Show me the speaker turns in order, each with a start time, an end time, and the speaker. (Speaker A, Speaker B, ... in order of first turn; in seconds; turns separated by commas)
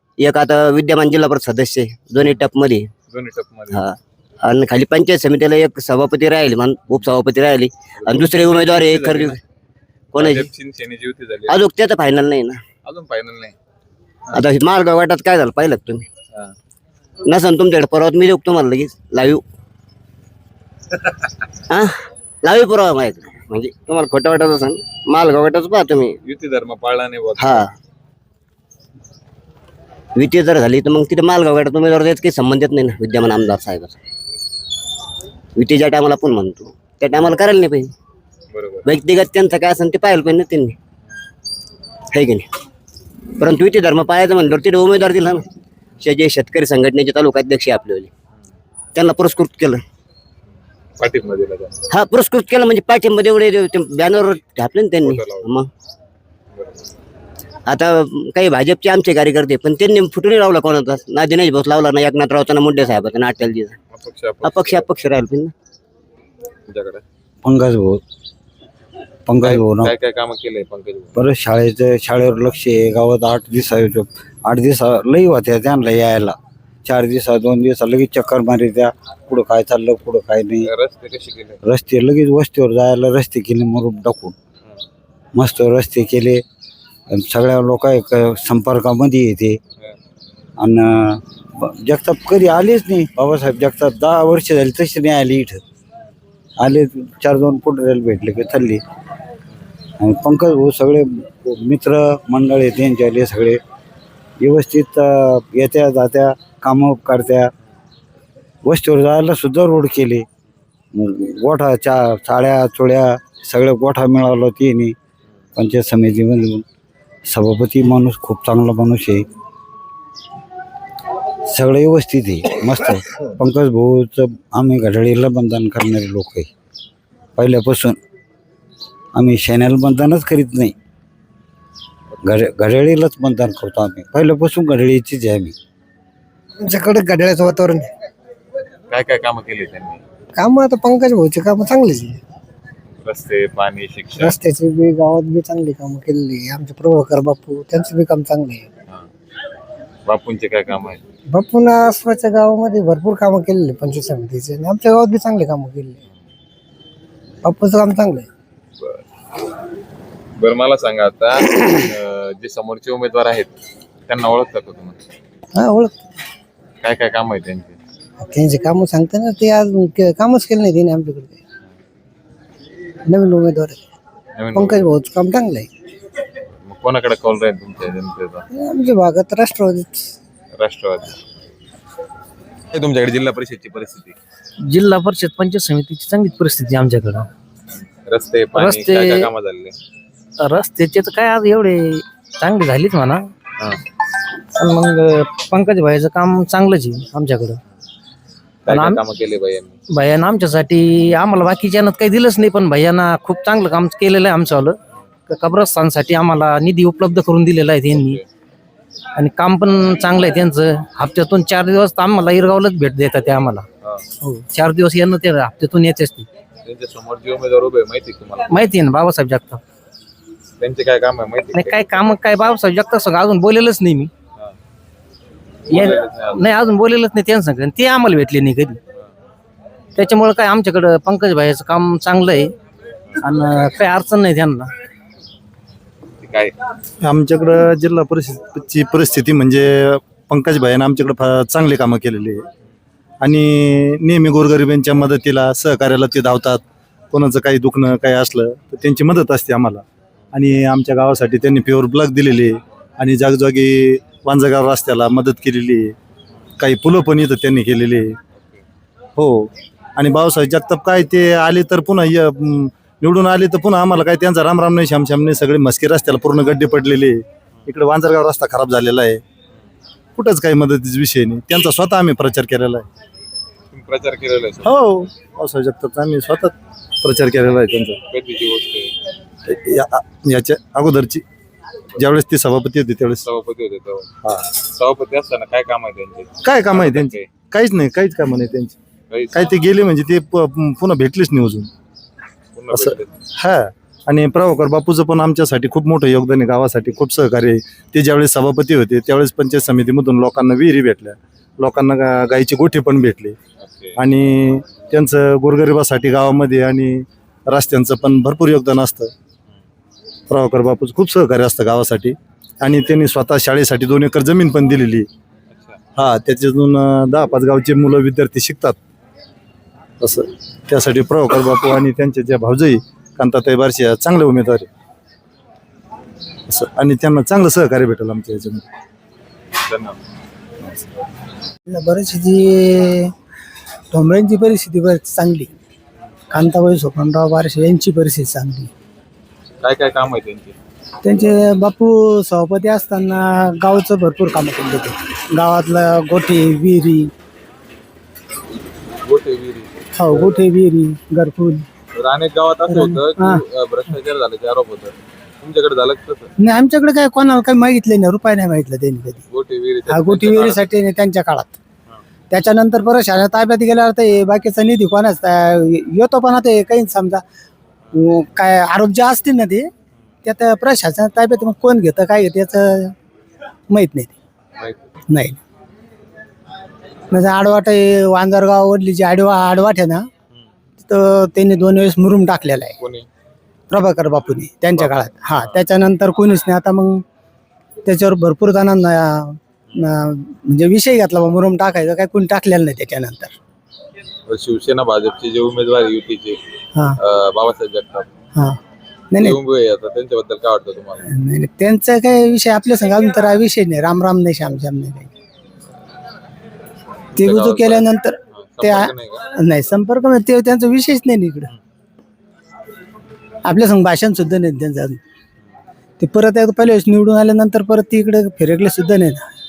Speaker A: 0.2-2.9, Speaker B: 3.1-3.8, Speaker A: 3.7-9.4, Speaker B: 8.0-9.4, Speaker A: 10.1-10.5, Speaker B: 10.1-11.6, Speaker A: 11.5-12.6, Speaker B: 12.8-13.5, Speaker A: 14.3-16.0, Speaker A: 17.3-19.4, Speaker A: 21.7-26.1, Speaker B: 26.2-27.7, Speaker A: 27.4-27.7, Speaker A: 30.2-34.0, Speaker A: 35.5-37.9, Speaker B: 38.5-38.9, Speaker A: 38.9-40.8, Speaker A: 42.1-42.4, Speaker A: 43.4-45.4, Speaker A: 46.0-48.1, Speaker A: 48.9-49.8, Speaker B: 51.0-51.8, Speaker A: 51.9-55.7, Speaker B: 55.0-55.5, Speaker B: 56.5-56.8, Speaker A: 57.7-63.8, Speaker B: 63.9-64.9, Speaker A: 64.4-65.5, Speaker B: 66.7-67.0, Speaker C: 67.4-68.0, Speaker C: 69.3-69.9, Speaker B: 69.4-71.2, Speaker C: 71.1-80.7, Speaker B: 80.6-81.6, Speaker C: 81.6-84.3, Speaker C: 85.3-86.4, Speaker C: 87.1-89.6, Speaker C: 90.6-95.6, Speaker C: 96.6-98.8, Speaker C: 100.0-103.6, Speaker C: 104.4-107.5, Speaker C: 108.6-110.2, Speaker C: 110.9-115.0, Speaker C: 115.5-116.6, Speaker C: 117.3-119.2, Speaker C: 121.5-126.5, Speaker C: 127.4-128.0, Speaker C: 129.1-130.8, Speaker C: 132.2-135.5, Speaker D: 136.6-137.9, Speaker B: 138.9-140.0, Speaker D: 140.4-142.2, Speaker B: 143.0-144.4, Speaker D: 144.2-148.6, Speaker B: 150.1-151.0, Speaker D: 151.3-156.0, Speaker D: 157.4-158.2, Speaker B: 160.4-163.5, Speaker B: 164.1-165.0, Speaker D: 165.6-165.9, Speaker B: 166.8-167.8, Speaker D: 168.2-171.3, Speaker D: 173.1-173.8, Speaker B: 174.4-174.9, Speaker D: 174.5-175.7, Speaker B: 176.7-178.4, Speaker D: 178.5-180.0, Speaker B: 180.6-181.2, Speaker B: 182.7-184.2, Speaker E: 184.7-187.3, Speaker B: 188.0-189.8, Speaker E: 188.5-189.3, Speaker E: 190.4-193.2, Speaker E: 194.6-197.6, Speaker E: 198.7-199.0, Speaker B: 198.7-199.8, Speaker E: 199.9-204.8, Speaker E: 205.3-208.2, Speaker B: 207.9-208.2, Speaker E: 209.2-213.6, Speaker E: 214.2-216.3, Speaker B: 216.6-218.7, Speaker E: 218.5-219.6, Speaker B: 220.6-221.8, Speaker E: 221.5-224.1, Speaker B: 225.7-226.4, Speaker E: 225.7-228.8, Speaker E: 230.0-232.5, Speaker E: 233.2-234.7, Speaker B: 236.2-236.5, Speaker F: 237.0-242.4, Speaker F: 243.2-255.9, Speaker F: 256.6-258.1, Speaker F: 259.2-269.2, Speaker F: 270.1-272.9, Speaker B: 273.7-275.0, Speaker F: 274.6-278.0, Speaker B: 278.1-278.9, Speaker F: 279.5-281.2, Speaker F: 282.0-283.2, Speaker B: 283.2-287.3, Speaker F: 286.4-288.8, Speaker B: 289.1-289.5, Speaker F: 289.3-291.7, Speaker B: 292.5-293.1, Speaker F: 292.7-303.4, Speaker B: 303.6-304.0, Speaker F: 304.0-309.1, Speaker F: 310.3-315.1, Speaker B: 315.5-315.8, Speaker F: 316.0-318.8, Speaker F: 320.0-324.7, Speaker F: 326.5-328.6, Speaker B: 329.6-330.0, Speaker G: 331.7-333.1, Speaker G: 333.9-335.5, Speaker G: 336.3-338.7, Speaker B: 339.6-340.6, Speaker G: 341.0-347.1, Speaker B: 349.0-350.4, Speaker G: 350.0-351.6, Speaker B: 352.0-356.3, Speaker G: 352.7-353.4, Speaker G: 356.4-359.2, Speaker B: 359.3-360.6, Speaker G: 359.9-361.5, Speaker G: 362.3-367.2, Speaker G: 367.9-369.7, Speaker G: 370.2-372.9, Speaker G: 373.7-374.1, Speaker G: 375.1-375.4, Speaker G: 377.1-380.1, Speaker G: 380.9-382.8, Speaker B: 382.8-383.1, Speaker G: 383.7-387.0, Speaker B: 384.8-385.6, Speaker G: 387.8-393.3, Speaker B: 394.3-396.4, Speaker B: 397.0-398.1, Speaker B: 399.2-401.1, Speaker G: 401.1-405.1, Speaker B: 407.2-409.3, Speaker G: 407.2-411.5, Speaker G: 413.5-415.0, Speaker G: 416.0-419.2